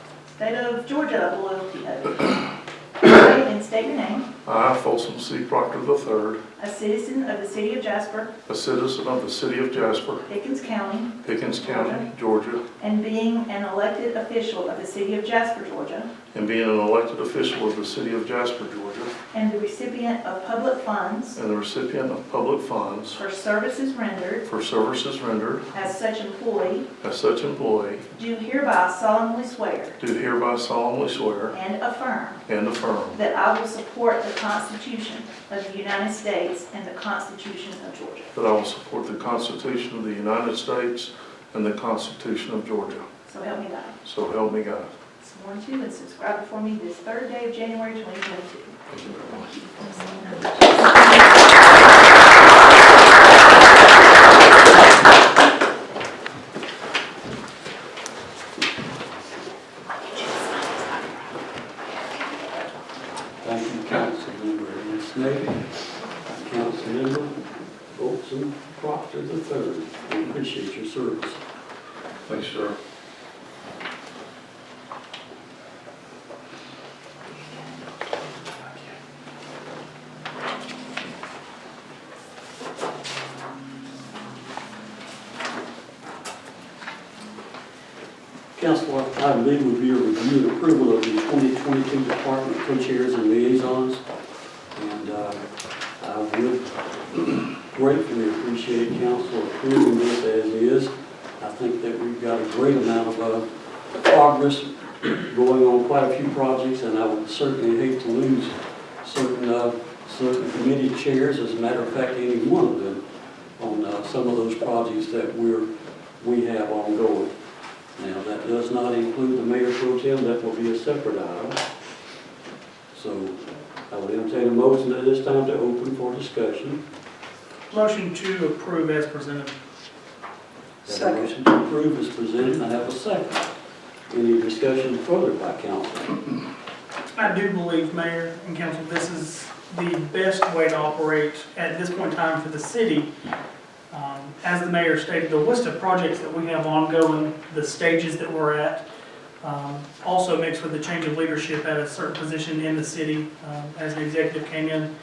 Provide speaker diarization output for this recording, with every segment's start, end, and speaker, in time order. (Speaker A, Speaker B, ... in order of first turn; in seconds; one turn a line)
Speaker A: 0.3-4.3
Speaker B: 4.5-6.4
Speaker A: 6.6-8.3
Speaker B: 8.5-10.3
Speaker A: 10.3-12.1
Speaker B: 11.2-12.6
Speaker A: 12.8-16.1
Speaker B: 16.3-19.1
Speaker A: 19.3-21.4
Speaker B: 21.4-23.2
Speaker A: 23.2-24.4
Speaker B: 24.4-25.7
Speaker A: 25.7-26.9
Speaker B: 27.0-28.1
Speaker A: 28.2-30.0
Speaker B: 30.0-31.5
Speaker A: 31.5-32.4
Speaker B: 32.5-33.2
Speaker A: 33.1-38.3
Speaker B: 38.3-43.1
Speaker A: 43.3-44.0
Speaker B: 44.0-44.9
Speaker A: 45.2-48.8
Speaker B: 48.9-49.6
Speaker A: 49.6-51.3
Speaker C: 63.4-65.7
Speaker C: 66.3-67.4
Speaker C: 67.9-71.4
Speaker B: 72.3-72.8
Speaker C: 88.5-94.0
Speaker C: 94.7-95.4
Speaker C: 96.0-103.5
Speaker C: 104.0-113.0
Speaker C: 113.6-115.7
Speaker C: 116.2-117.3
Speaker C: 118.0-121.6
Speaker C: 122.9-126.8
Speaker D: 127.7-129.6
Speaker C: 130.8-133.5
Speaker C: 134.1-136.3
Speaker D: 137.2-143.1
Speaker D: 143.9-148.8
Speaker D: 149.4-154.9